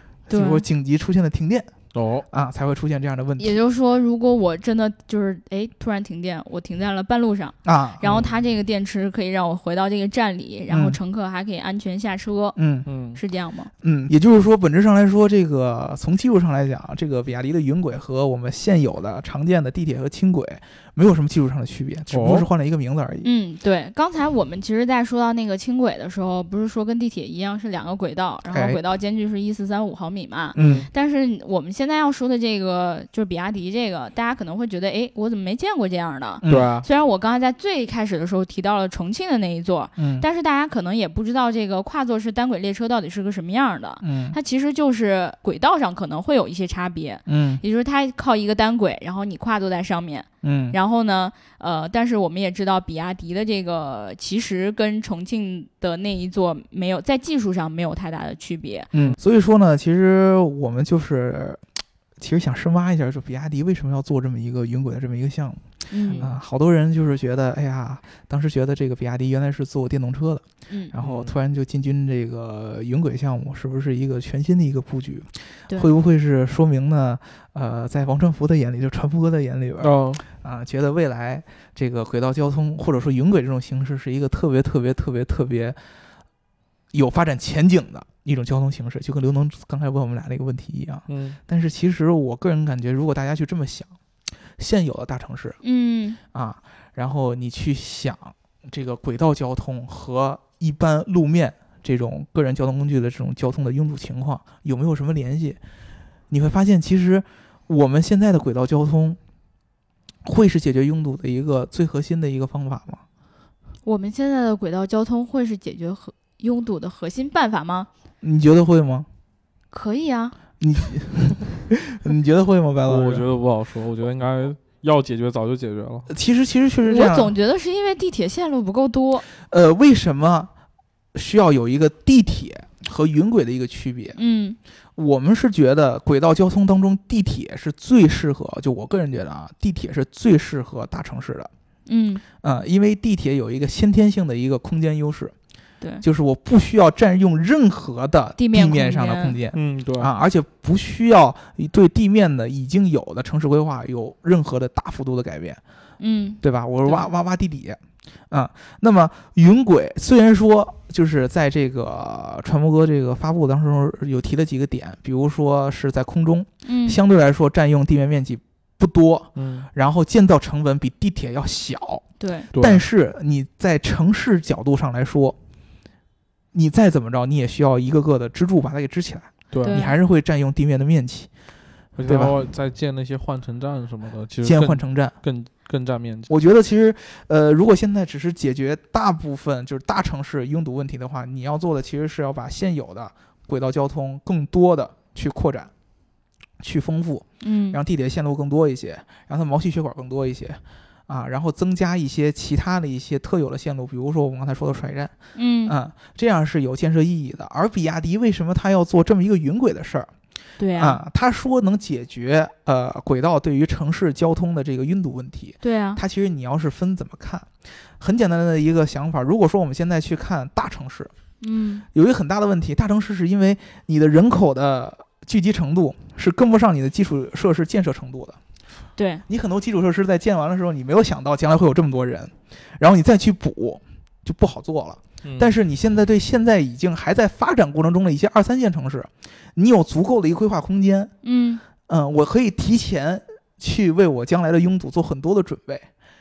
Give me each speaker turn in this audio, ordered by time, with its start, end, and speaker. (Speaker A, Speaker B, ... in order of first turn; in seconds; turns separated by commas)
Speaker A: 0.3-1.7, Speaker B: 0.3-0.6, Speaker C: 1.9-2.2, Speaker A: 2.3-3.6, Speaker B: 3.4-12.6, Speaker A: 7.6-8.1, Speaker C: 8.1-8.4, Speaker A: 10.7-11.0, Speaker A: 12.6-12.9, Speaker C: 12.8-13.2, Speaker B: 13.1-13.7, Speaker A: 13.8-23.3, Speaker C: 22.1-22.5, Speaker B: 23.2-58.9, Speaker A: 28.5-28.8, Speaker A: 30.5-30.9, Speaker C: 30.6-30.9, Speaker A: 36.4-36.8, Speaker C: 36.5-36.8, Speaker A: 40.0-40.3, Speaker A: 44.0-44.4, Speaker A: 47.3-47.6, Speaker A: 50.4-50.8, Speaker A: 58.9-61.6, Speaker A: 62.2-65.6, Speaker B: 65.9-66.3, Speaker A: 66.2-85.8, Speaker C: 71.0-71.3, Speaker C: 79.8-80.2, Speaker A: 86.9-93.9, Speaker C: 91.1-91.4, Speaker A: 94.6-95.6, Speaker B: 95.6-96.2, Speaker A: 96.3-105.6, Speaker A: 106.3-109.2, Speaker A: 110.2-113.0, Speaker B: 113.8-117.9, Speaker A: 118.2-119.1, Speaker B: 119.7-120.3, Speaker A: 120.6-123.2, Speaker C: 122.8-126.1, Speaker A: 126.1-127.3, Speaker B: 126.8-129.2, Speaker A: 129.4-130.5, Speaker A: 131.1-134.2, Speaker B: 134.2-134.6, Speaker A: 134.9-141.5, Speaker B: 141.9-142.2, Speaker A: 142.4-145.3, Speaker A: 146.0-155.6, Speaker B: 148.4-149.4, Speaker C: 149.5-150.1, Speaker B: 156.0-157.1, Speaker A: 156.4-175.3, Speaker B: 166.6-167.0, Speaker C: 169.3-169.7, Speaker B: 172.2-172.5, Speaker C: 172.5-172.8, Speaker A: 176.5-181.3, Speaker C: 179.5-179.8, Speaker B: 179.6-179.9, Speaker C: 181.9-186.3, Speaker A: 182.0-182.3, Speaker A: 184.4-185.2, Speaker A: 186.3-195.7, Speaker A: 196.6-205.1, Speaker B: 197.4-197.8, Speaker B: 205.3-205.7, Speaker A: 205.7-210.1, Speaker B: 210.6-211.0, Speaker A: 210.8-221.1, Speaker B: 215.6-216.0, Speaker B: 221.4-221.8, Speaker A: 221.9-228.4, Speaker B: 229.0-229.2, Speaker A: 229.3-241.1, Speaker C: 235.2-235.5, Speaker B: 241.2-241.6, Speaker A: 241.9-245.9